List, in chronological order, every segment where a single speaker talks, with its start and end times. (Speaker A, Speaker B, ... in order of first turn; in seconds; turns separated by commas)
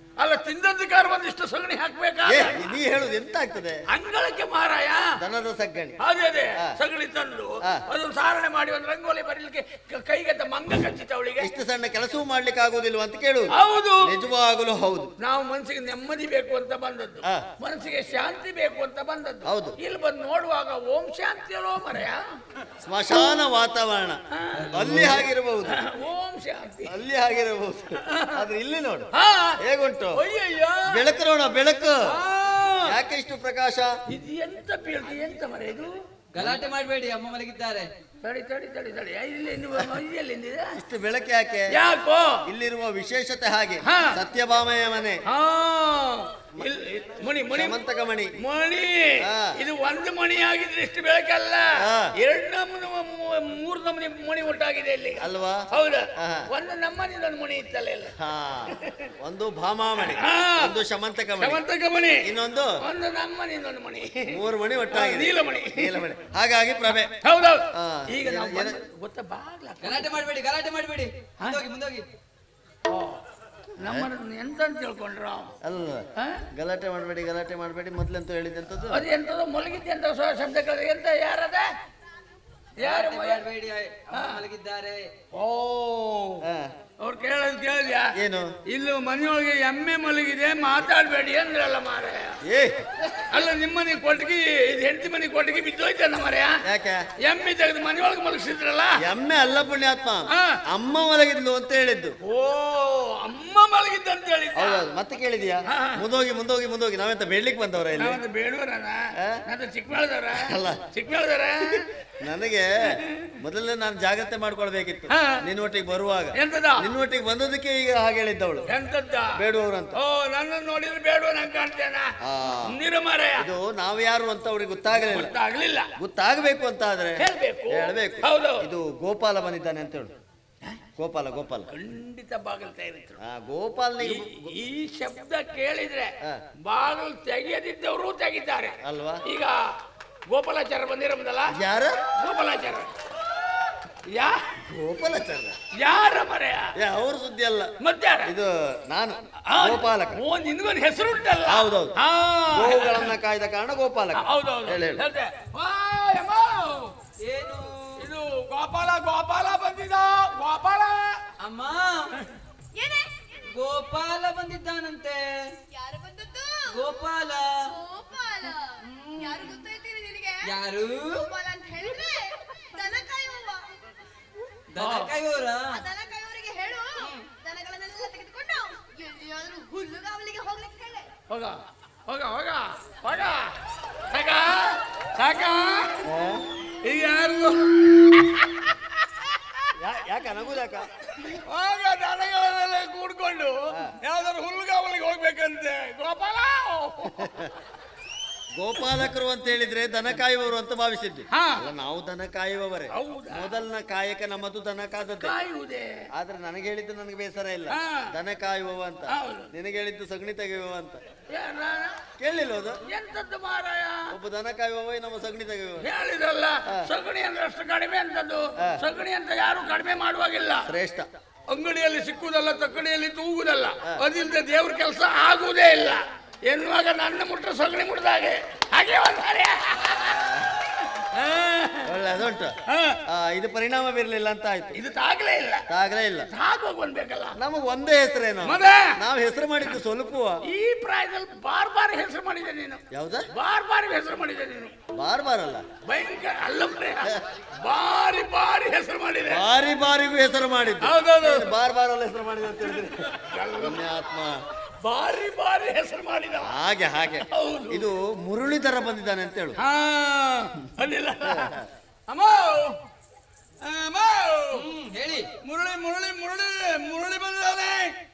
Speaker A: 0.2-2.7, Speaker B: 2.3-3.8, Speaker A: 3.9-5.1, Speaker B: 5.2-6.0, Speaker A: 6.0-11.5, Speaker B: 11.4-15.1, Speaker A: 13.5-14.1, Speaker A: 15.2-22.2, Speaker B: 19.4-19.8, Speaker B: 22.9-24.2, Speaker A: 24.3-24.6, Speaker C: 24.6-25.3, Speaker B: 24.7-25.8, Speaker A: 25.7-27.0, Speaker B: 26.9-29.1, Speaker A: 28.1-28.4, Speaker A: 29.1-29.6, Speaker B: 29.6-30.2, Speaker A: 30.1-31.1, Speaker B: 30.9-32.1, Speaker A: 32.0-33.0, Speaker B: 32.9-33.9, Speaker A: 34.1-36.0, Speaker C: 36.3-37.9, Speaker A: 38.2-40.8, Speaker B: 40.8-41.8, Speaker A: 41.7-42.4, Speaker B: 42.5-45.2, Speaker A: 43.9-44.2, Speaker A: 45.3-47.8, Speaker B: 47.5-48.3, Speaker A: 48.4-58.2, Speaker B: 49.2-49.6, Speaker B: 51.8-52.1, Speaker B: 55.2-55.7, Speaker B: 56.2-56.5, Speaker B: 58.2-61.6, Speaker A: 58.7-59.1, Speaker A: 60.0-60.8, Speaker A: 61.4-64.4, Speaker B: 62.2-62.8, Speaker B: 64.3-67.1, Speaker A: 64.9-66.0, Speaker A: 67.2-70.1, Speaker B: 67.7-68.8, Speaker C: 69.8-72.1, Speaker A: 72.9-73.2, Speaker A: 73.8-75.5, Speaker B: 73.8-74.1, Speaker B: 75.6-79.0, Speaker A: 76.2-76.5, Speaker A: 78.9-81.7, Speaker A: 82.8-83.4, Speaker C: 82.8-85.1, Speaker A: 84.1-84.4, Speaker A: 85.3-86.4, Speaker B: 86.4-86.7, Speaker A: 87.0-88.2, Speaker B: 88.2-88.5, Speaker A: 88.7-92.4, Speaker B: 92.5-92.8, Speaker A: 93.2-96.6, Speaker B: 96.7-97.0, Speaker A: 97.2-99.0, Speaker B: 99.0-102.2, Speaker A: 100.3-100.6, Speaker A: 102.2-104.8, Speaker B: 104.5-108.2, Speaker A: 105.7-106.0, Speaker A: 108.0-111.9, Speaker B: 110.3-110.9, Speaker B: 112.2-118.7, Speaker A: 112.9-113.3, Speaker A: 115.1-115.4, Speaker A: 116.3-116.9, Speaker A: 118.7-119.4, Speaker B: 119.3-120.0, Speaker A: 120.0-122.1, Speaker B: 122.2-122.8, Speaker A: 122.7-123.5, Speaker B: 123.4-125.3, Speaker A: 125.0-125.9, Speaker B: 126.0-130.1, Speaker A: 127.2-128.7, Speaker B: 131.0-131.7, Speaker A: 131.7-133.2, Speaker B: 133.2-134.5, Speaker A: 134.0-136.1, Speaker A: 136.7-139.6, Speaker B: 138.8-139.2, Speaker A: 140.3-141.6, Speaker B: 141.5-142.0, Speaker A: 142.2-142.9, Speaker A: 144.1-144.6, Speaker B: 144.7-145.6, Speaker A: 145.8-146.7, Speaker B: 146.8-147.7, Speaker A: 147.8-148.3, Speaker B: 148.2-150.2, Speaker A: 149.5-153.1, Speaker B: 151.5-151.9, Speaker B: 152.5-155.0, Speaker A: 154.2-156.9, Speaker C: 157.2-158.1, Speaker A: 158.0-161.2, Speaker C: 161.4-162.1, Speaker D: 162.8-163.4, Speaker C: 163.5-165.4, Speaker D: 165.7-166.9, Speaker C: 166.7-167.6, Speaker D: 167.6-173.7, Speaker C: 168.8-169.6, Speaker C: 170.4-171.2, Speaker C: 174.7-175.8, Speaker A: 174.8-175.1, Speaker D: 175.7-181.1, Speaker A: 181.3-183.6, Speaker A: 184.1-186.0, Speaker B: 186.0-186.5, Speaker A: 186.8-189.7, Speaker B: 189.8-190.9, Speaker A: 191.1-197.3, Speaker B: 197.1-197.5, Speaker B: 198.6-205.3, Speaker A: 201.3-201.6, Speaker A: 202.9-203.5, Speaker A: 205.2-205.9, Speaker B: 206.2-211.0, Speaker A: 207.7-208.1, Speaker A: 209.1-209.5, Speaker A: 211.3-212.0, Speaker B: 212.2-212.8, Speaker A: 212.9-214.1, Speaker B: 214.1-215.9, Speaker A: 215.8-220.7, Speaker B: 220.7-221.1, Speaker A: 221.5-232.0, Speaker B: 230.2-230.5, Speaker B: 231.8-234.8, Speaker A: 232.7-233.0, Speaker A: 234.8-235.7, Speaker B: 235.7-236.3, Speaker A: 236.3-237.4, Speaker B: 237.4-240.4, Speaker A: 238.4-239.0, Speaker A: 240.4-244.8, Speaker B: 242.9-243.3, Speaker B: 244.9-245.7, Speaker A: 245.9-249.4, Speaker B: 249.3-254.4, Speaker A: 250.8-251.5, Speaker A: 252.8-253.9, Speaker A: 254.8-256.6, Speaker B: 256.4-259.6, Speaker A: 257.3-257.9, Speaker A: 259.6-261.6, Speaker B: 261.2-261.6, Speaker A: 262.1-262.8, Speaker A: 263.6-264.7, Speaker C: 264.5-265.3, Speaker A: 265.4-267.9